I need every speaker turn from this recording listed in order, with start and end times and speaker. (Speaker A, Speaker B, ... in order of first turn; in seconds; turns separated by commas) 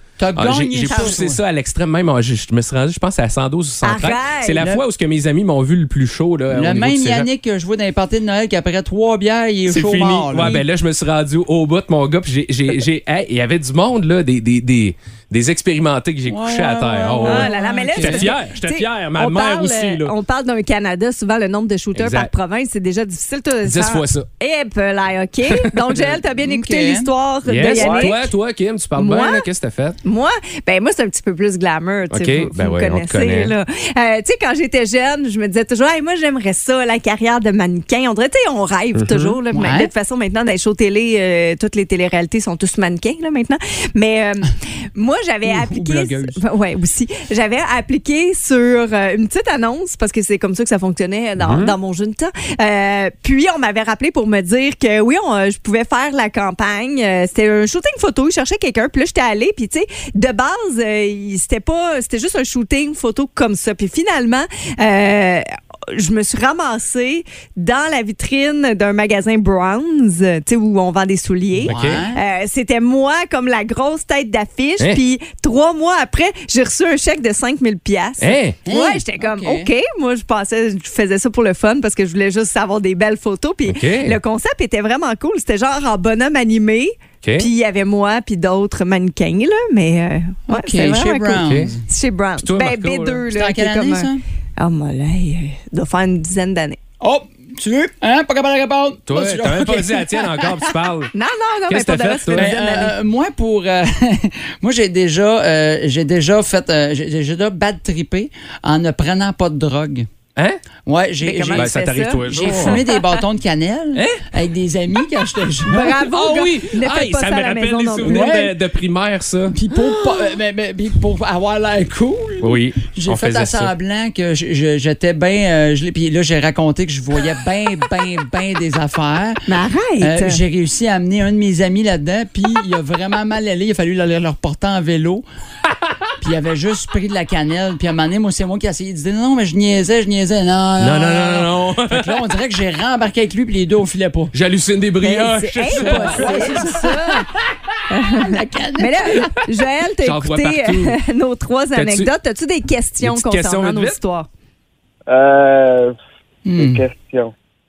Speaker A: 0.2-1.4, Speaker B: 0.3-7.3, Speaker C: 0.9-1.2, Speaker C: 3.8-4.6, Speaker A: 4.6-4.8, Speaker A: 6.5-10.6, Speaker B: 9.7-20.1, Speaker A: 16.3-18.3, Speaker C: 17.2-28.3, Speaker B: 21.9-22.3, Speaker B: 23.6-24.3, Speaker B: 25.5-26.0, Speaker A: 26.3-27.1, Speaker B: 27.5-30.0, Speaker D: 27.7-28.1, Speaker C: 28.9-29.5, Speaker C: 30.0-96.8, Speaker B: 32.1-33.5, Speaker B: 38.9-39.4, Speaker A: 39.5-39.9, Speaker A: 45.4-46.4, Speaker B: 51.4-51.8, Speaker A: 71.6-72.2, Speaker B: 71.6-72.0, Speaker B: 78.2-78.6, Speaker A: 78.6-79.7, Speaker B: 83.7-84.2, Speaker B: 87.2-87.5, Speaker A: 90.5-91.8, Speaker B: 91.4-91.7, Speaker B: 92.4-93.2, Speaker A: 93.3-94.2, Speaker A: 97.0-100.7, Speaker B: 99.1-101.1, Speaker C: 101.1-103.0, Speaker B: 101.7-102.5, Speaker A: 102.3-110.1, Speaker A: 110.8-111.8, Speaker C: 111.2-113.2, Speaker B: 111.5-112.8, Speaker A: 112.3-116.0, Speaker B: 113.9-114.2, Speaker C: 115.7-118.4, Speaker B: 115.9-119.6, Speaker A: 118.0-118.5, Speaker A: 119.5-129.5, Speaker B: 122.4-123.7, Speaker C: 129.5-130.4, Speaker A: 130.0-135.2, Speaker A: 136.2-144.3, Speaker B: 140.8-142.2, Speaker B: 144.3-146.7, Speaker C: 145.0-147.2, Speaker A: 145.7-147.3, Speaker C: 147.9-154.3, Speaker A: 148.1-149.3, Speaker B: 150.0-151.0, Speaker B: 151.7-152.1, Speaker B: 153.0-154.0, Speaker D: 155.1-155.9, Speaker A: 156.4-156.8, Speaker D: 156.6-157.3